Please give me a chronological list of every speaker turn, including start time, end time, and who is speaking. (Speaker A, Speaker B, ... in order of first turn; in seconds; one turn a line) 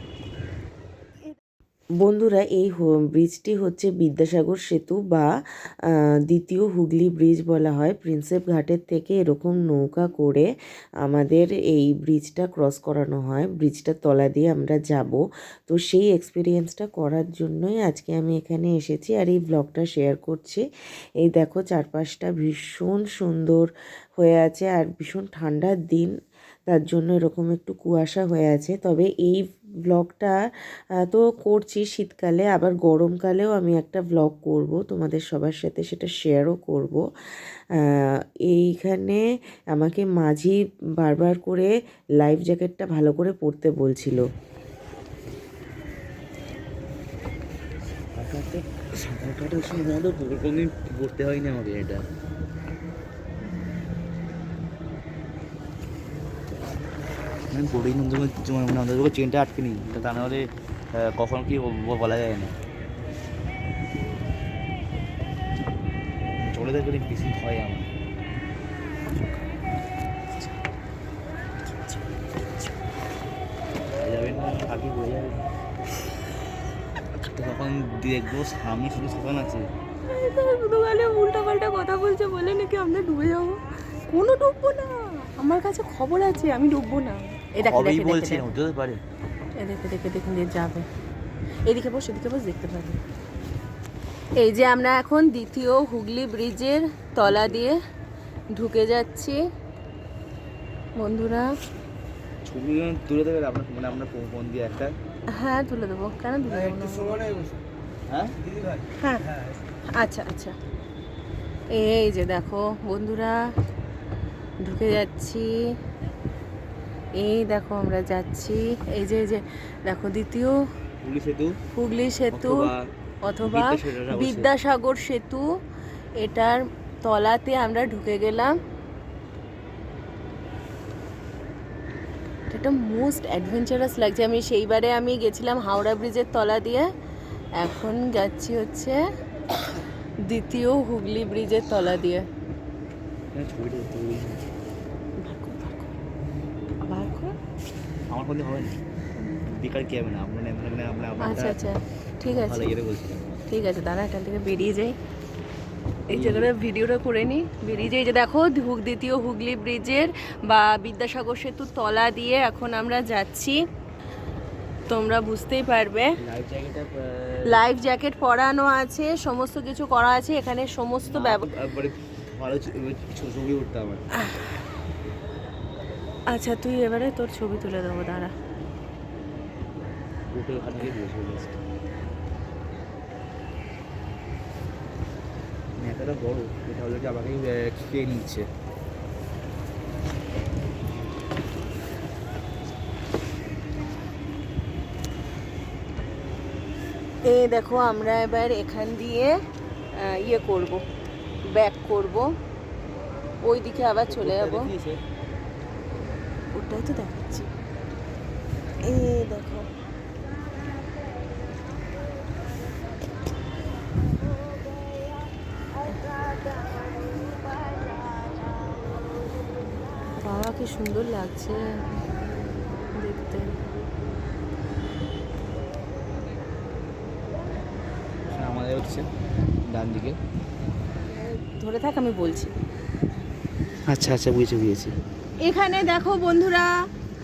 Speaker A: 2.0-5.3
Speaker A: 5.9-10.5
Speaker A: 11.0-20.6
Speaker A: 21.2-26.1
Speaker A: 26.7-30.4
Speaker A: 31.0-37.0
Speaker A: 37.8-44.2
Speaker B: 48.2-52.0
Speaker B: 57.5-62.5
Speaker B: 66.4-67.9
Speaker B: 74.0-75.5
Speaker B: 77.3-79.7
Speaker C: 80.1-88.5
Speaker B: 87.6-89.0
Speaker C: 89.6-90.8
Speaker C: 91.7-93.0
Speaker C: 94.4-97.8
Speaker B: 97.2-97.6
Speaker C: 98.5-99.4
Speaker C: 101.0-101.5
Speaker B: 102.5-105.0
Speaker C: 105.3-107.2
Speaker B: 106.6-107.5
Speaker B: 108.1-108.9
Speaker C: 109.0-109.2
Speaker C: 109.9-110.5
Speaker C: 111.7-113.4
Speaker C: 114.6-115.5
Speaker C: 117.2-120.6
Speaker B: 121.0-121.6
Speaker C: 121.7-122.7
Speaker B: 122.3-122.8
Speaker C: 123.2-125.5
Speaker B: 123.4-124.5
Speaker C: 126.2-128.6
Speaker C: 132.5-136.9
Speaker C: 137.6-139.0
Speaker C: 140.3-142.2
Speaker B: 143.3-144.4
Speaker C: 145.2-145.9
Speaker C: 146.8-147.3
Speaker B: 148.1-148.8
Speaker B: 149.5-151.6
Speaker C: 151.2-152.7
Speaker B: 152.2-153.3
Speaker C: 153.5-154.9
Speaker B: 156.1-156.5
Speaker C: 156.1-163.6
Speaker C: 164.9-166.1
Speaker B: 166.2-167.7
Speaker C: 167.5-171.4
Speaker B: 171.1-174.0
Speaker C: 174.1-174.5
Speaker C: 176.3-178.3
Speaker B: 180.3-181.6
Speaker B: 185.8-188.5
Speaker C: 197.3-199.3
Speaker C: 200.0-200.8
Speaker C: 201.5-202.3
Speaker C: 203.4-204.7
Speaker B: 204.1-205.0
Speaker C: 206.5-207.5
Speaker C: 208.8-209.7
Speaker C: 220.2-221.6
Speaker C: 222.9-223.6
Speaker B: 228.3-229.1
Speaker B: 229.7-230.2
Speaker C: 231.2-232.5
Speaker B: 233.9-234.9
Speaker C: 235.4-236.7